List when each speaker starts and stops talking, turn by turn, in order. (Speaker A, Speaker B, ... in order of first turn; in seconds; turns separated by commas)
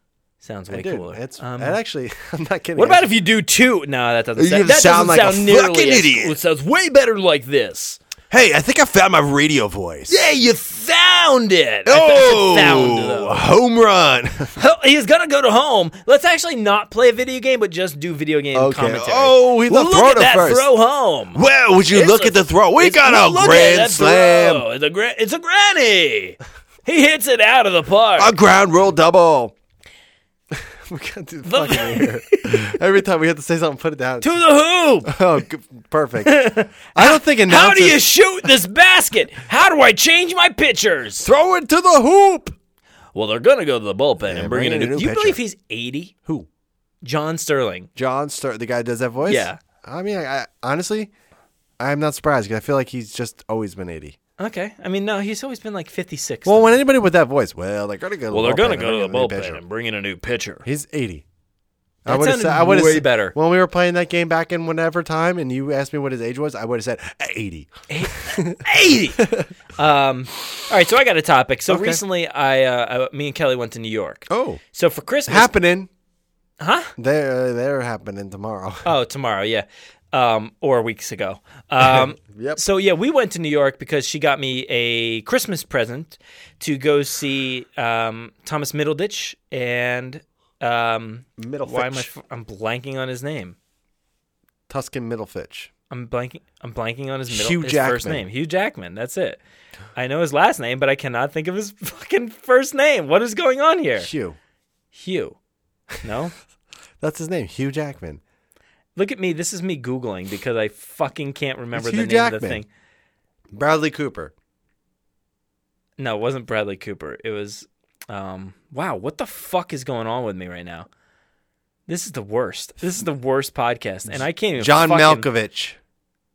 Speaker A: 0.4-1.8, Speaker B: 0.7-3.1, Speaker A: 2.8-8.0, Speaker B: 4.3-6.4, Speaker B: 8.3-10.2, Speaker A: 10.1-13.5, Speaker B: 11.8-14.6, Speaker A: 14.6-28.3, Speaker B: 18.5-20.7, Speaker B: 21.3-24.6, Speaker B: 28.2-29.5, Speaker B: 30.5-34.4, Speaker A: 31.4-32.7, Speaker A: 34.2-35.1, Speaker B: 35.0-38.0, Speaker A: 36.2-41.3, Speaker B: 41.2-42.5, Speaker A: 43.1-46.1, Speaker B: 44.2-45.4, Speaker A: 47.0-47.9, Speaker B: 48.0-51.1, Speaker A: 49.2-49.6, Speaker B: 51.8-54.2, Speaker A: 54.4-56.8, Speaker B: 56.4-59.6, Speaker A: 58.3-60.6, Speaker B: 60.6-61.2, Speaker A: 62.0-63.3, Speaker B: 62.0-68.6, Speaker A: 67.9-75.5, Speaker B: 69.2-69.5, Speaker B: 71.7-72.0, Speaker B: 74.3-74.6, Speaker B: 75.3-75.9, Speaker A: 76.6-76.9, Speaker B: 77.0-78.9, Speaker A: 78.8-93.5, Speaker B: 81.8-82.6, Speaker B: 91.4-92.1, Speaker B: 94.7-95.7, Speaker A: 95.9-99.4, Speaker B: 97.3-98.2, Speaker A: 99.9-104.1, Speaker B: 104.0-104.4, Speaker A: 104.9-105.4, Speaker A: 106.0-106.3, Speaker B: 107.0-108.2, Speaker A: 109.0-112.7, Speaker B: 111.7-112.6, Speaker B: 113.5-114.3, Speaker A: 116.0-120.9, Speaker A: 121.9-125.2, Speaker B: 124.1-125.8